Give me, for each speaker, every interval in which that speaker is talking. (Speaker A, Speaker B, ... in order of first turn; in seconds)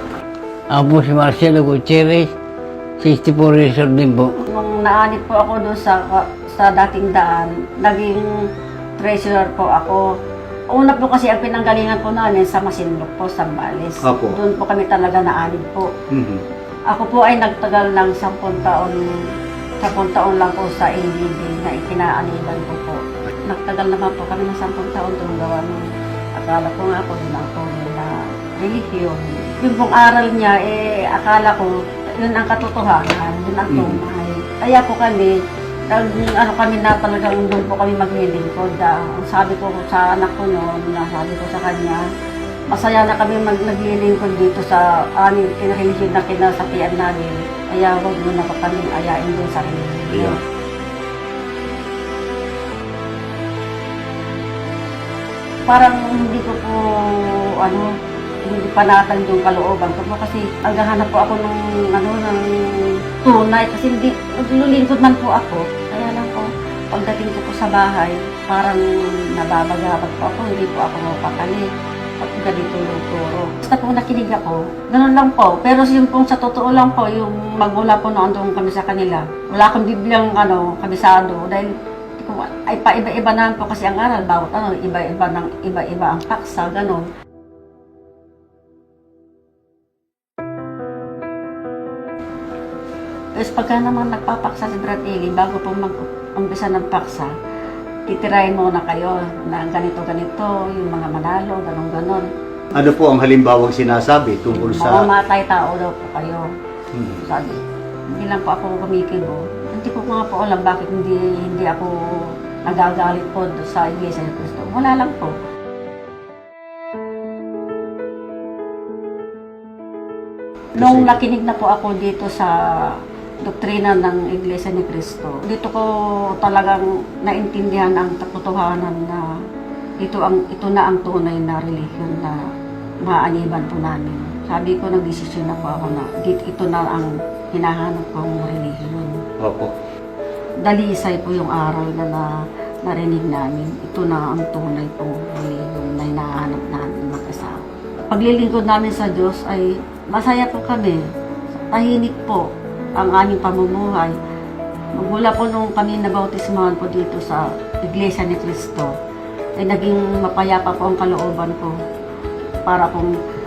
Speaker A: 0.7-2.3, 3.0-4.4
Speaker B: 4.4-8.2, 9.0-10.0, 10.7-15.9, 16.9-19.0, 19.8-25.8, 26.4-35.3, 35.9-42.0, 42.7-50.4, 55.7-57.9, 58.5-71.6, 72.2-87.1, 93.4-97.3, 98.1-102.3, 104.6-106.4, 107.3-107.6, 108.1-112.0, 112.7-115.3, 120.8-122.5, 123.4-125.9, 126.4-129.2, 130.0-132.4, 133.1-139.2, 140.6-142.3, 142.8-151.0, 151.5-152.4, 153.0-154.1, 155.0-158.9, 159.6-161.7, 162.7-163.1
Speaker C: 14.0-14.4, 16.1-16.4, 33.7-34.0, 50.1-50.4, 102.7-105.1, 106.9-107.2, 120.8-121.2, 139.4-139.7